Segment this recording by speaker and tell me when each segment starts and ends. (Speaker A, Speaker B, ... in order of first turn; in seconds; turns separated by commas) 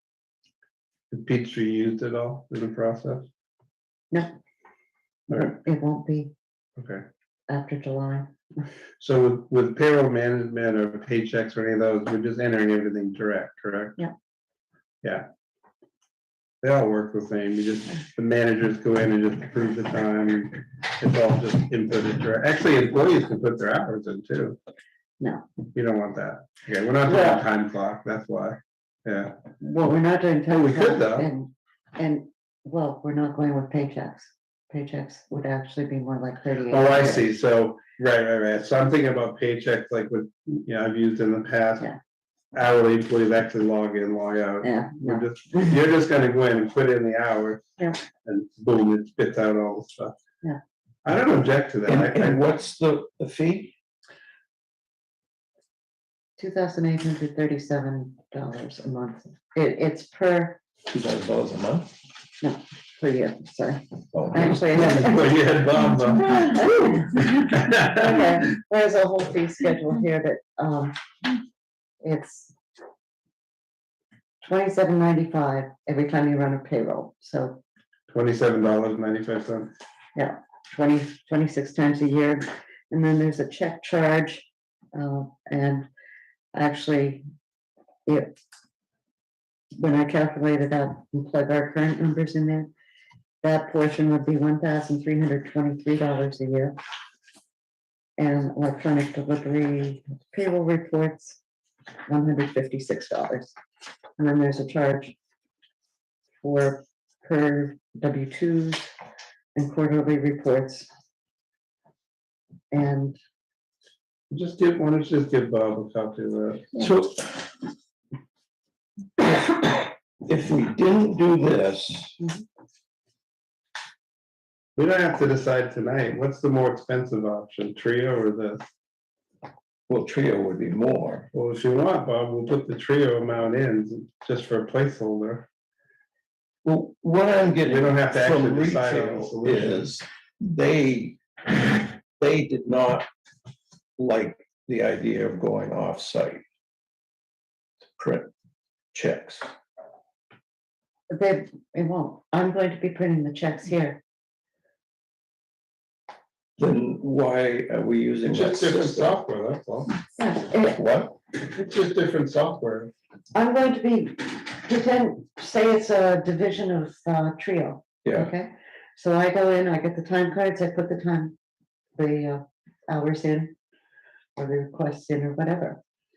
Speaker A: 1.1-3.3, Speaker B: 5.3-6.3, Speaker A: 6.8-7.0, Speaker B: 7.5-8.3, Speaker A: 9.0-14.0, Speaker A: 16.6-24.6, Speaker B: 25.2-25.5, Speaker A: 25.7-29.4, Speaker B: 27.0-27.4, Speaker B: 29.6-37.3, Speaker A: 30.5-31.3, Speaker A: 36.7-41.9, Speaker A: 42.5-47.6, Speaker B: 44.6-45.8, Speaker A: 48.2-50.2, Speaker A: 51.0-52.5, Speaker C: 51.9-53.7, Speaker B: 56.4-60.6, Speaker C: 60.9-61.9, Speaker B: 62.4-65.6, Speaker C: 64.1-64.6, Speaker A: 64.7-68.2, Speaker B: 66.3-71.0, Speaker B: 72.0-72.5, Speaker B: 74.4-77.6, Speaker A: 78.1-79.7, Speaker B: 80.2-85.9, Speaker B: 86.5-87.2, Speaker B: 88.1-88.4, Speaker B: 89.8-92.7, Speaker B: 93.4-96.8, Speaker B: 98.2-101.4, Speaker B: 102.1-103.6, Speaker B: 104.2-105.2, Speaker B: 106.4-108.9, Speaker B: 109.5-110.9, Speaker B: 112.7-113.2, Speaker A: 114.3-116.8, Speaker C: 116.8-117.5, Speaker C: 119.2-122.2, Speaker A: 124.8-128.6, Speaker C: 129.9-131.3, Speaker A: 131.3-135.5, Speaker C: 136.6-143.1, Speaker A: 137.6-139.9, Speaker C: 144.0-146.4, Speaker C: 148.0-148.3, Speaker C: 148.9-149.5, Speaker B: 151.1-154.0, Speaker C: 156.6-159.2, Speaker A: 158.3-159.9, Speaker B: 160.2-160.8, Speaker C: 160.7-161.2, Speaker A: 161.5-162.9, Speaker B: 163.3-171.3, Speaker C: 168.0-168.3, Speaker B: 171.9-173.5, Speaker B: 174.3-175.8